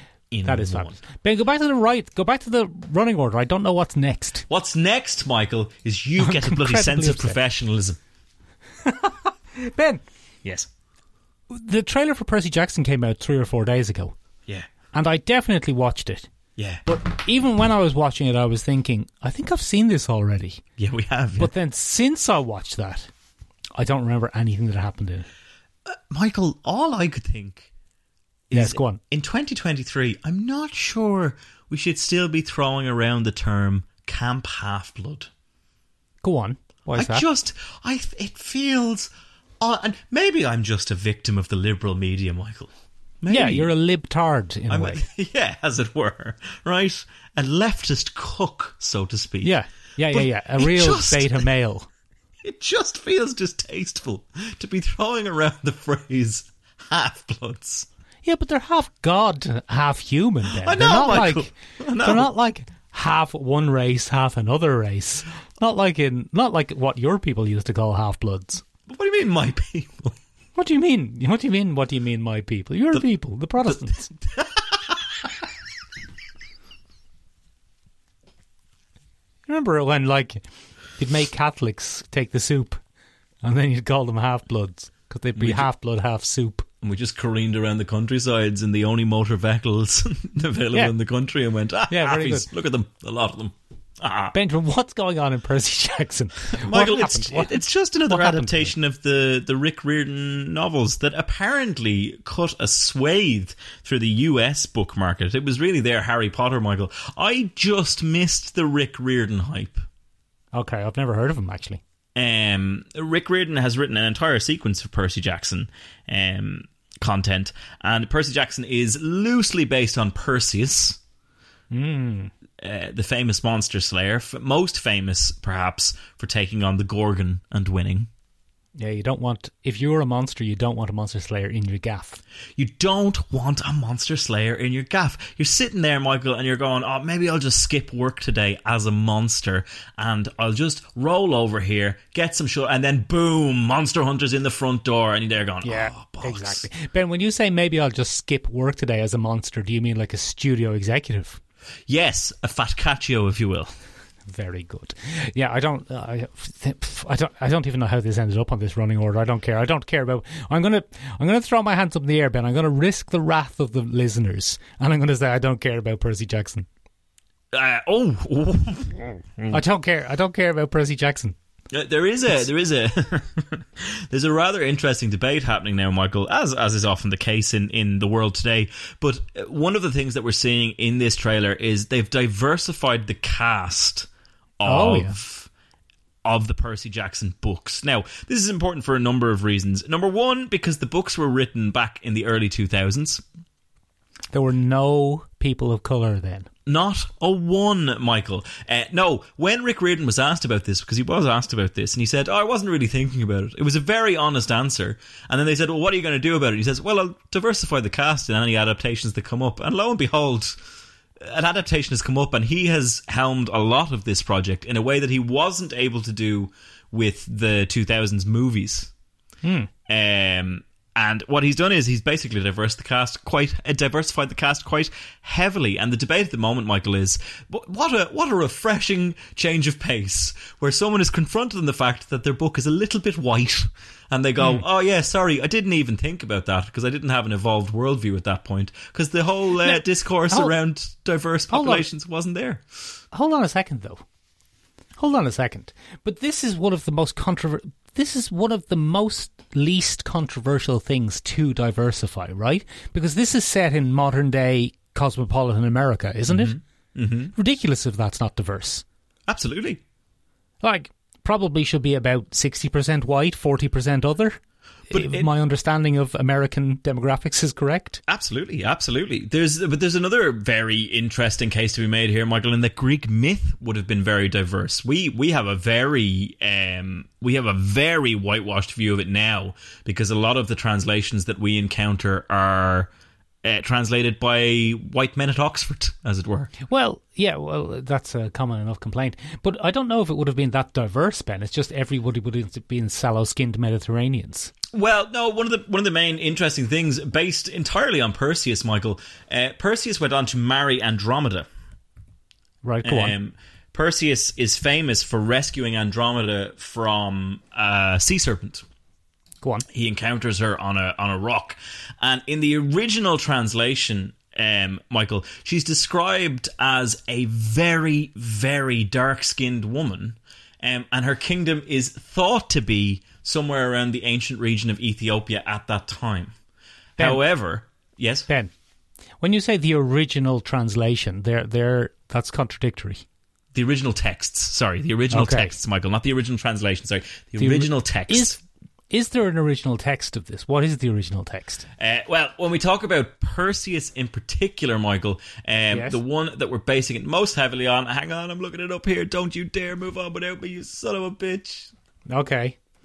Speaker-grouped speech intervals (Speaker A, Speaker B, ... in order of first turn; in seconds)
Speaker A: 0.3-1.0, 4.5-8.0, 10.4-10.7, 16.6-16.8, 20.8-21.5, 25.9-27.7, 28.5-35.3, 36.9-43.7, 44.7-49.5, 50.1-51.5, 52.4-57.9, 60.5-62.3, 68.9-70.2, 73.6-75.3, 85.3-85.7, 86.8-94.3, 96.5-109.8, 112.1-121.0, 122.6-128.1, 132.6-146.7, 151.9-153.7, 167.5-169.6, 171.7-184.1, 184.6-185.5, 186.2-193.2, 196.7-210.6, 211.2-218.9, 219.9-242.6, 256.3-257.3, 259.3-259.8, 264.9-265.3, 268.1-282.9, 283.4-286.5, 294.7-301.5, 302.8-308.6, 309.7-326.3, 327.0-328.3, 333.5-338.4, 341.8-351.7
Speaker B: 0.4-4.5, 6.2-7.4, 8.8-10.0, 11.5-14.1, 14.9-16.3, 16.8-20.6, 21.4-23.1, 23.7-25.3, 28.5-29.0, 36.2-37.2, 43.3-45.0, 49.4-51.9, 58.2-68.6, 70.5-74.1, 79.5-80.4, 81.0-82.8, 83.4-86.7, 91.9-92.5, 94.3-98.7, 110.5-111.8, 121.7-122.3, 128.8-132.2, 145.6-151.4, 154.3-166.7, 169.5-171.3, 184.6-185.2, 194.3-196.5, 219.4-219.7, 239.6-240.5, 241.5-241.9, 243.1-244.0, 245.0-256.6, 257.3-258.8, 260.6-268.0, 286.7-294.5, 302.6-303.1, 327.0-327.2, 329.2-333.0, 335.1-335.6, 337.4-338.4, 338.9-341.6, 345.7-346.0, 352.1-352.6